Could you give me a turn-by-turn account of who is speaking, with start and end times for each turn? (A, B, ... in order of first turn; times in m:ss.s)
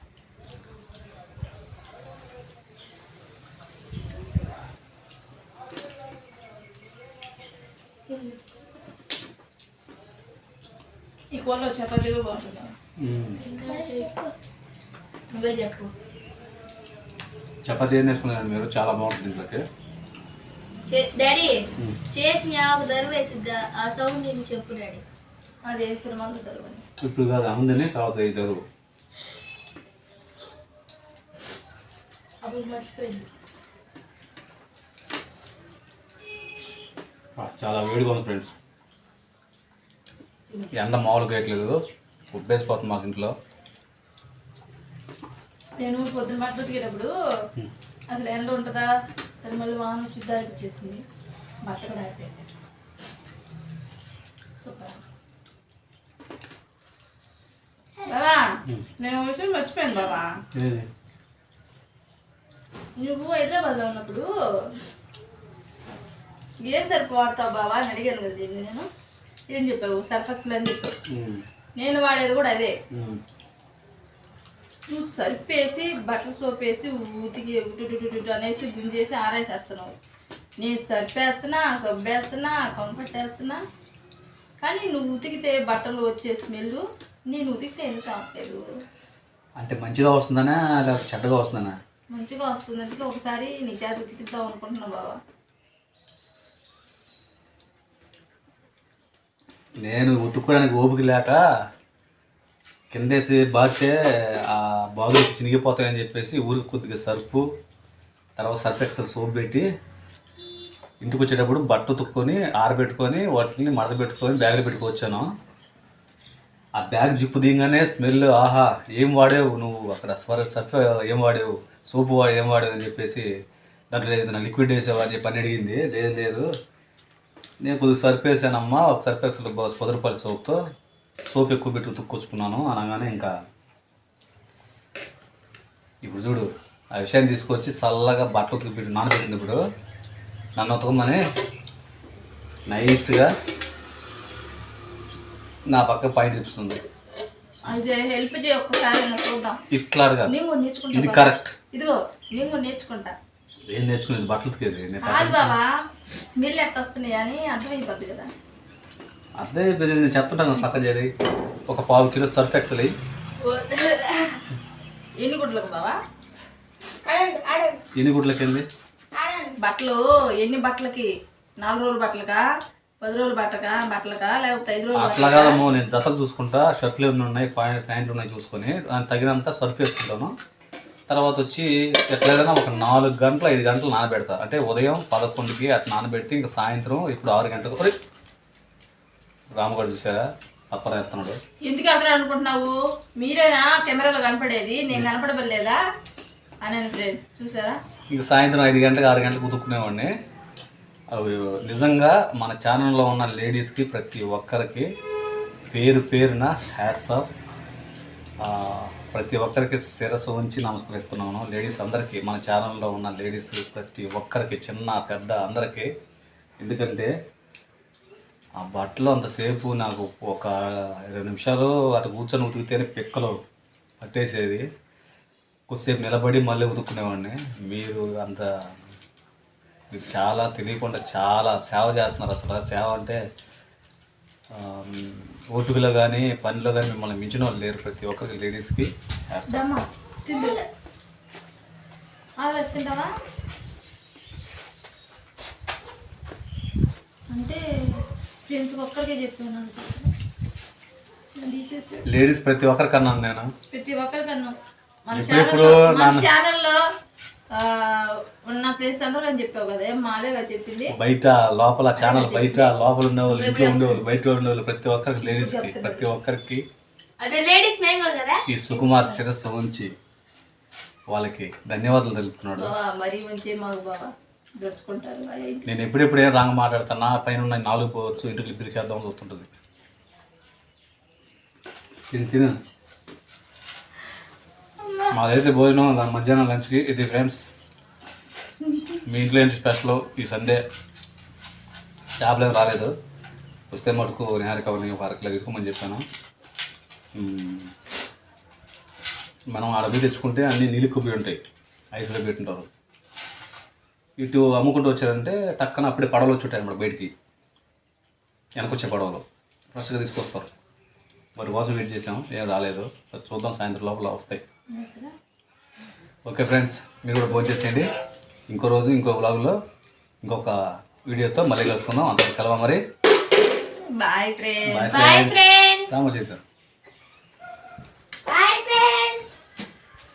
0:08.1-0:08.4 A
0:11.3-0:12.7 B
0:13.0-0:13.4 C
0:13.4-0:14.3 A
0:13.6-0:14.1 B
0:15.3-0:15.9 A
0:17.6-0:19.6 C
0:20.9-0:21.6 A
0:22.1-0:25.0 A
0:25.6-0:26.8 B
0:27.0-0:28.6 C
0:32.4-0:33.3 A
0:37.4-0:38.5 C
0:40.7-0:41.8 C
0:42.3-0:43.3 C
0:45.8-0:47.1 B
0:48.1-0:48.9 B
0:49.4-0:51.0 B
0:51.6-0:52.4 B
0:54.6-0:55.0 B
0:58.0-0:58.4 B
0:59.0-1:00.3 B
1:00.5-1:00.9 C
1:03.0-1:04.3 B
1:06.7-1:08.9 B
1:09.5-1:10.9 B
1:11.1-1:11.4 C
1:11.8-1:12.7 B
1:12.9-1:13.2 C
1:14.9-1:20.0 B
1:20.6-1:23.6 B
1:24.6-1:28.6 B
1:29.6-1:31.8 C
1:32.1-1:35.2 B
1:39.8-1:41.4 C
1:42.9-1:47.4 C
1:48.4-1:49.6 C
1:51.0-1:55.2 C
1:56.8-2:03.2 C
2:03.9-2:06.5 C
2:07.6-2:10.6 C
2:11.3-2:13.3 C
2:16.0-2:19.6 C
2:20.6-2:21.2 C
2:22.7-2:23.3 C
2:25.7-2:26.8 C
2:27.7-2:29.6 B
2:29.7-2:30.3 C
2:30.3-2:33.1 B
2:30.9-2:31.5 C
2:33.7-2:35.5 C
2:35.0-2:35.7 B
2:36.3-2:38.3 B
2:39.4-2:41.1 C
2:41.7-2:42.9 C
2:43.4-2:44.4 A
2:45.2-2:46.0 B
2:47.0-2:47.8 A
2:48.0-2:48.6 C
2:49.1-2:49.6 A
2:49.6-2:51.1 B
2:51.6-2:52.4 B
2:53.0-2:55.6 B
2:54.9-3:00.3 C
3:01.1-3:07.9 C
3:09.6-3:11.4 C
3:11.6-3:15.8 B
3:16.6-3:17.8 B
3:18.1-3:20.1 C
3:21.1-3:24.8 C
3:25.7-3:27.3 C
3:28.4-3:35.9 C
3:36.6-3:37.1 C
3:38.6-3:40.5 C
3:41.1-3:43.3 C
3:44.0-3:44.6 C
3:45.7-3:48.5 C
3:49.9-3:53.2 C
3:54.5-3:59.7 C
3:59.5-4:00.6 B
4:02.4-4:03.1 B
4:07.3-4:07.6 B
4:08.5-4:10.1 B
4:11.4-4:12.0 B
4:12.0-4:13.5 C
4:13.7-4:14.5 B
4:15.1-4:16.8 B
4:15.1-4:16.3 C
4:17.5-4:21.0 B
4:20.9-4:26.6 C
4:22.0-4:22.7 B
4:23.3-4:24.0 A
4:25.2-4:26.0 B
4:27.2-4:28.4 A
4:28.5-4:29.9 C
4:31.1-4:32.7 C
4:32.6-4:34.0 B
4:34.6-4:35.6 B
4:35.6-4:39.5 C
4:42.1-4:42.5 C
4:44.8-4:45.1 B
4:45.1-4:47.4 C
4:48.6-4:49.0 B
4:49.0-4:50.6 C
4:52.2-4:52.9 C
4:53.7-4:56.0 C
4:57.2-4:57.7 C
4:59.5-5:01.4 C
5:01.9-5:02.7 C
5:04.2-5:07.1 C
5:08.6-5:10.5 C
5:11.4-5:14.4 C
5:14.7-5:15.1 B
5:16.2-5:17.9 C
5:18.5-5:19.6 C
5:20.2-5:20.5 C
5:21.1-5:22.8 C
5:24.0-5:25.1 B
5:24.6-5:26.4 C
5:24.9-5:25.9 A
5:28.3-5:29.2 A